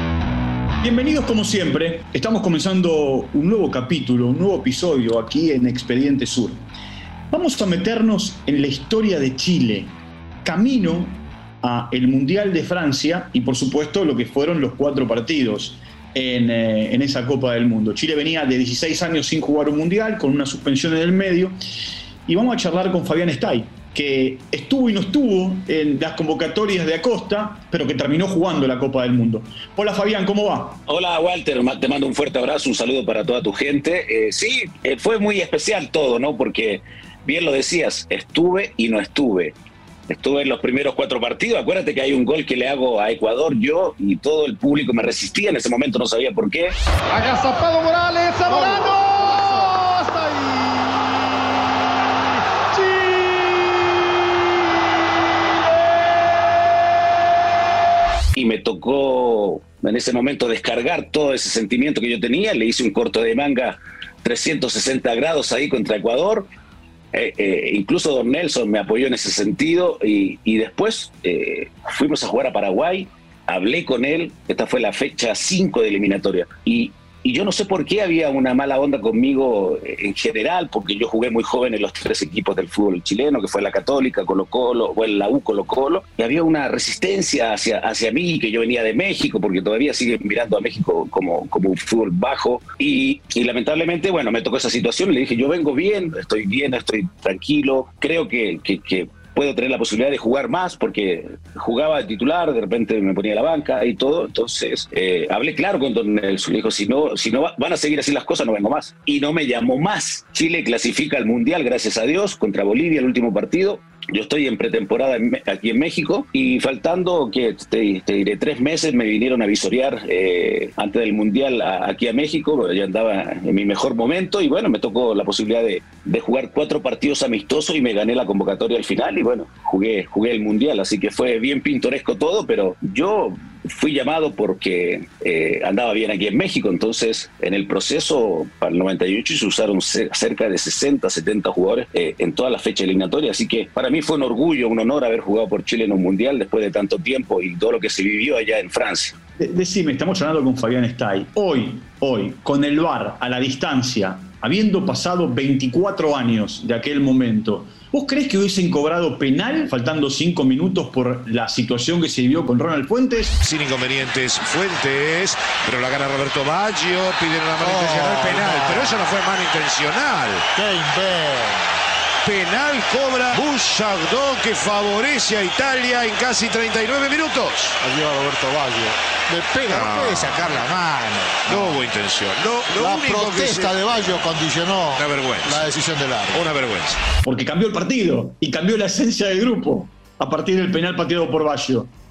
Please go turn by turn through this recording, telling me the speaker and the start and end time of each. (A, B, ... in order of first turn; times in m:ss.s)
0:00.8-0:06.6 A
0:07.3-0:09.9 A
0:10.4-0:21.5 A
0:22.3-0:30.8 A
0:30.9-0:39.6 B
0:40.1-0:46.8 B
0:47.2-0:49.8 C
0:58.4-1:06.5 B
1:07.1-2:29.2 B
2:29.4-2:43.4 A
2:43.4-2:50.5 D
2:47.6-2:49.0 E
2:50.6-2:51.6 E
2:52.2-2:57.8 D
2:57.8-3:01.8 E
2:59.6-3:00.7 D
3:01.4-3:04.2 D
3:02.7-3:06.5 E
3:04.9-3:05.7 D
3:06.3-3:07.0 D
3:07.2-3:11.9 A